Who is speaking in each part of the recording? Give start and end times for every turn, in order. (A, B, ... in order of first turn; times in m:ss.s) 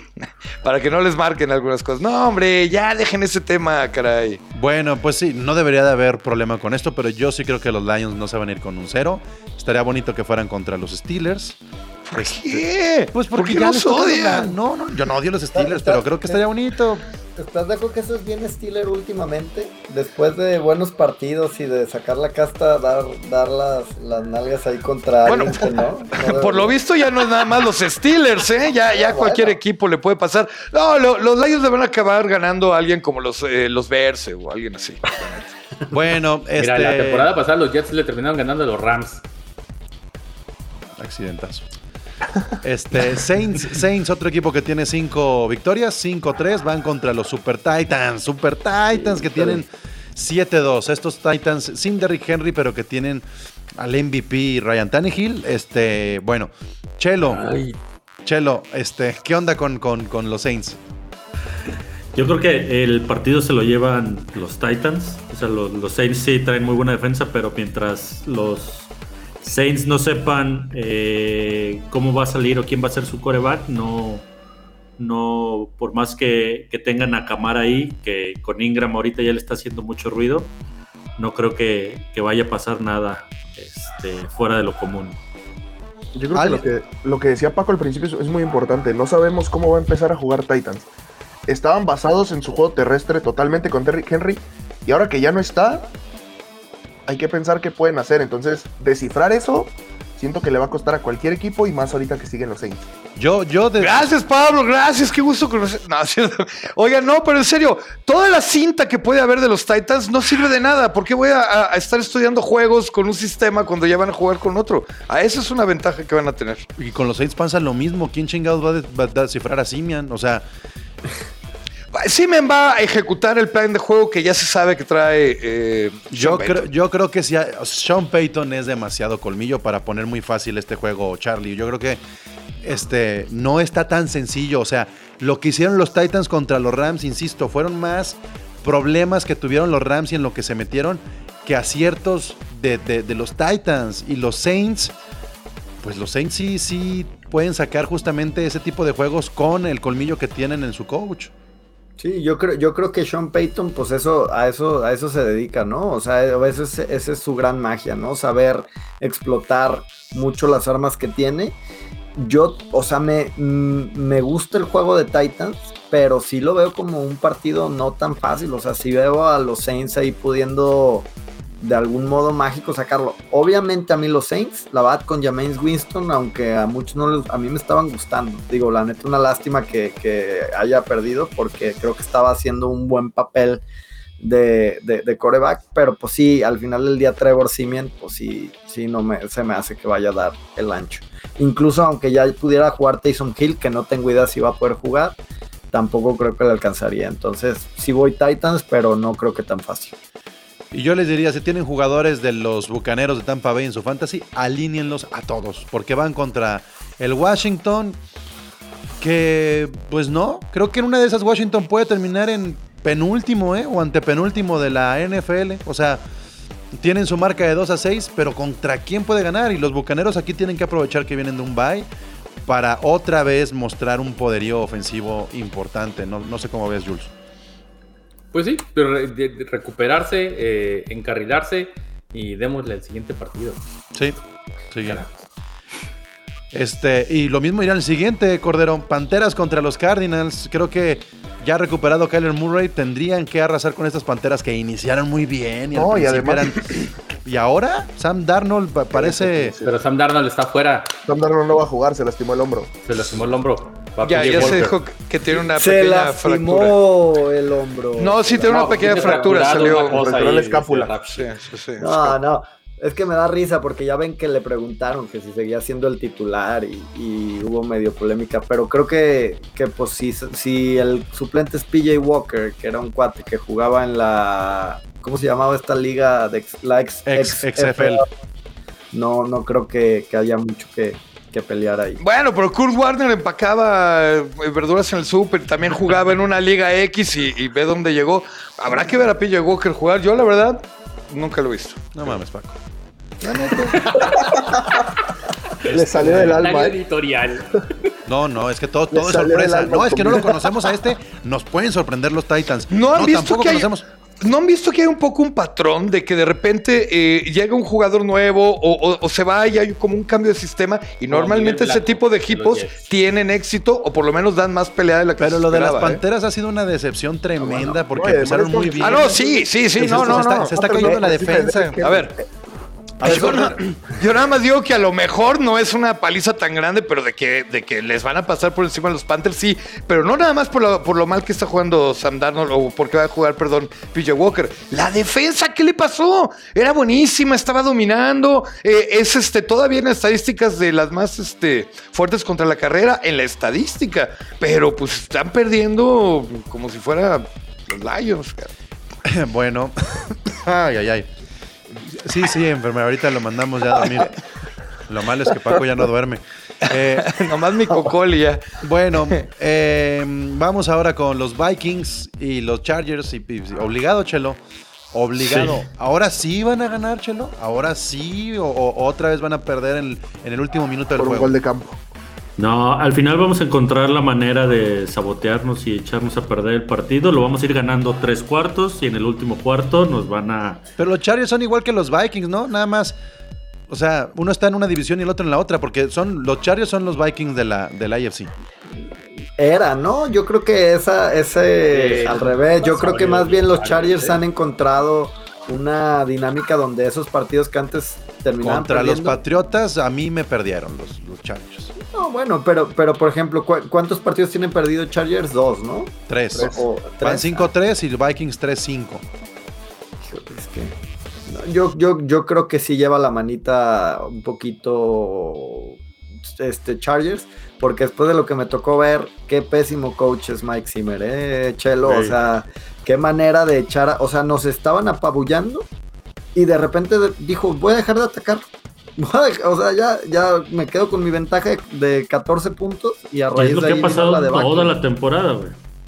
0:00.2-0:04.4 A
0:04.5-0:11.6 B
0:12.1-0:14.5 A
0:12.2-0:17.0 B
0:15.5-0:16.4 C
0:17.4-0:26.8 C
0:25.2-0:35.2 A
0:28.9-0:29.6 C
0:35.9-0:37.3 B
0:36.6-0:39.2 D
0:41.0-0:41.7 B
0:42.6-0:57.5 B
0:57.3-0:57.8 D
0:58.2-1:00.8 B
1:02.1-1:08.9 E
1:09.4-1:14.3 E
1:15.0-1:20.5 E
1:21.2-1:25.2 E
1:26.2-1:30.9 F
1:26.3-1:26.6 B
1:31.5-1:35.9 F
1:37.1-1:42.8 F
1:43.2-1:44.1 B
1:43.8-1:56.7 A
1:56.8-2:00.4 B
2:01.9-2:06.7 A
2:06.1-2:12.0 B
2:12.6-2:24.9 B
2:25.8-2:31.3 B
2:32.0-2:41.6 C
2:42.2-2:51.1 C
2:51.6-3:03.6 C
3:04.2-3:15.2 C
3:15.7-3:20.0 C
3:20.7-3:28.0 B
3:29.0-3:36.0 B
3:36.7-3:41.9 B
3:42.5-3:47.1 B
3:48.3-3:53.6 D
3:54.7-3:55.0 B
3:56.5-4:09.6 B
4:05.7-4:06.8 F
4:09.0-4:09.7 F
4:09.6-4:10.9 D
4:11.1-4:12.7 F
4:12.8-4:14.8 D
4:14.0-4:16.8 A
4:15.4-4:19.3 C
4:18.0-4:20.0 A
4:18.4-4:21.3 D
4:19.4-4:21.2 F
4:21.2-4:22.2 A
4:21.8-4:38.0 C
4:37.1-4:38.0 B
4:38.9-4:42.0 C
4:42.0-4:51.9 A
4:51.9-4:52.6 B
4:53.3-4:53.8 B
4:53.5-4:54.6 F
4:53.6-4:54.4 D
4:55.6-4:56.8 F
4:55.6-4:57.9 D
4:55.8-4:56.4 B
4:58.1-5:03.8 B
4:58.9-5:00.5 F
5:02.7-5:16.0 A
5:11.1-5:12.9 D
5:15.2-5:19.2 B
5:17.4-5:22.2 F
5:18.8-5:20.5 A
5:19.8-5:21.8 B
5:21.8-5:22.1 A
5:23.0-5:23.6 B
5:23.0-5:48.5 A
5:23.0-5:23.6 F
5:49.0-5:51.1 B
5:51.7-5:54.2 B
5:54.9-5:57.2 B
5:57.0-5:58.4 A
5:58.6-6:04.4 B
6:04.9-6:11.4 B
6:05.2-6:05.6 E
6:11.0-6:11.8 F
6:12.4-6:20.6 E
6:20.8-6:23.0 B
6:23.7-6:28.3 B
6:29.4-6:39.2 C
6:31.7-6:34.2 D
6:38.4-6:41.7 B
6:41.8-6:47.5 C
6:46.1-6:49.0 B
6:50.0-6:50.7 C
6:51.3-6:55.8 C
6:56.3-7:05.7 C
7:06.4-7:08.5 C
7:09.0-7:14.8 C
7:13.4-7:15.6 E